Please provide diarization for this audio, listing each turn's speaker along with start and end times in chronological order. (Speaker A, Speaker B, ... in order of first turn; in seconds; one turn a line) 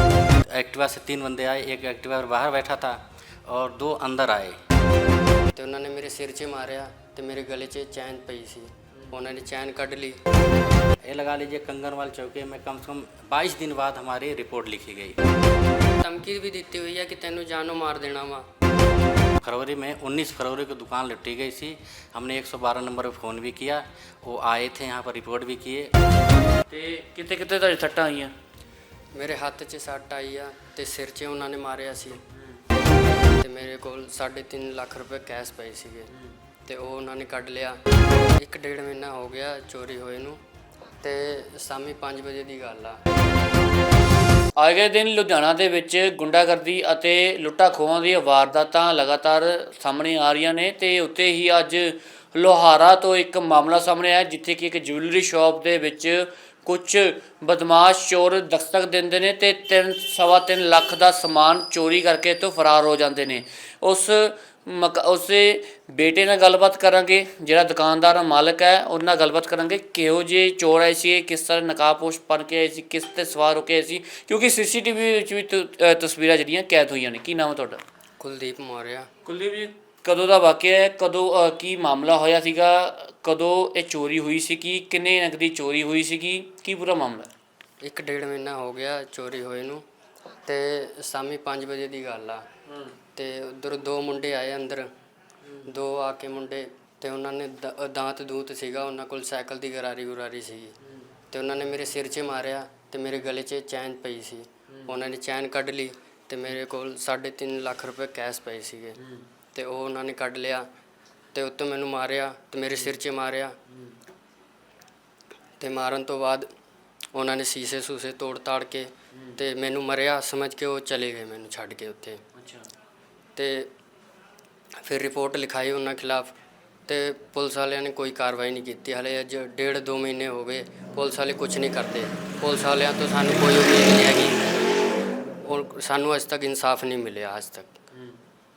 Speaker A: 0.4-4.6
Speaker B: 5.5-10.2
Speaker A: 11.1-15.2
Speaker B: 16.0-18.5
Speaker A: 19.4-25.9
Speaker C: 26.7-28.3
Speaker B: 29.1-32.2
Speaker C: 32.3-32.6
Speaker B: 33.4-36.1
Speaker C: 36.1-36.4
Speaker B: 36.7-37.8
Speaker B: 38.4-40.4
Speaker B: 41.0-43.0
Speaker C: 44.6-77.8
Speaker B: 78.2-79.1
Speaker C: 79.2-87.3
Speaker B: 87.8-89.8
Speaker B: 90.5-92.4
Speaker C: 92.7-93.0
Speaker B: 93.2-94.9
Speaker C: 95.4-95.7
Speaker B: 95.7-100.8
Speaker C: 100.8-101.1
Speaker B: 101.3-109.0
Speaker C: 104.7-105.0
Speaker C: 109.0-109.3
Speaker B: 109.5-110.7
Speaker B: 111.3-113.6
Speaker C: 113.7-114.0
Speaker B: 115.6-116.5
Speaker B: 117.1-122.2
Speaker C: 119.1-119.4
Speaker C: 122.3-122.7
Speaker B: 123.4-123.7
Speaker B: 124.8-126.3
Speaker B: 126.9-134.4
Speaker B: 135.4-137.7
Speaker C: 137.9-138.2